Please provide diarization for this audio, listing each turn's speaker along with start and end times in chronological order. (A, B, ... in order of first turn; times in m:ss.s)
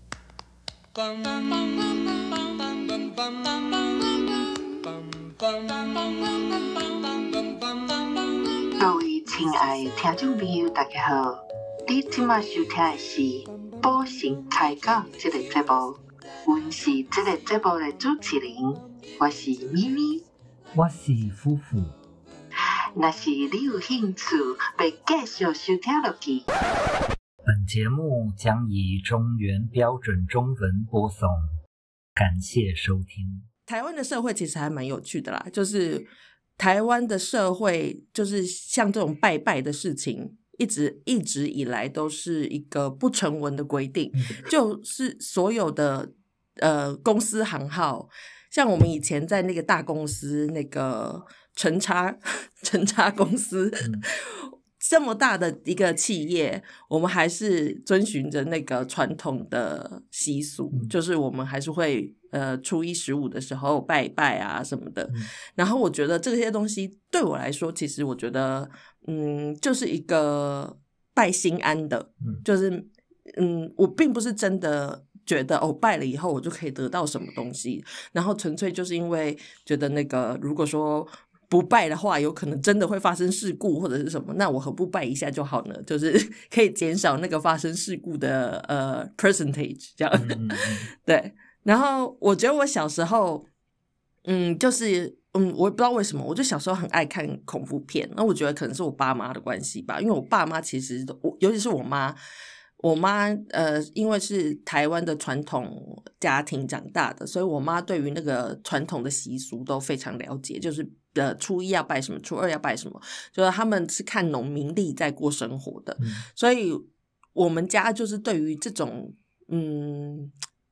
0:01.5-0:02.1 A
0:05.9-0:07.0 A
0:08.7-0:20.2 A
0:20.7-0:21.9 B
0:22.9-0:26.5 A
0:27.4-0:31.4 B
0:32.2-0:33.4 B
0:33.7-1:33.4 C
0:44.1-0:44.4 B
1:30.1-1:30.9 B
1:34.2-1:42.2 C
1:42.8-2:00.3 C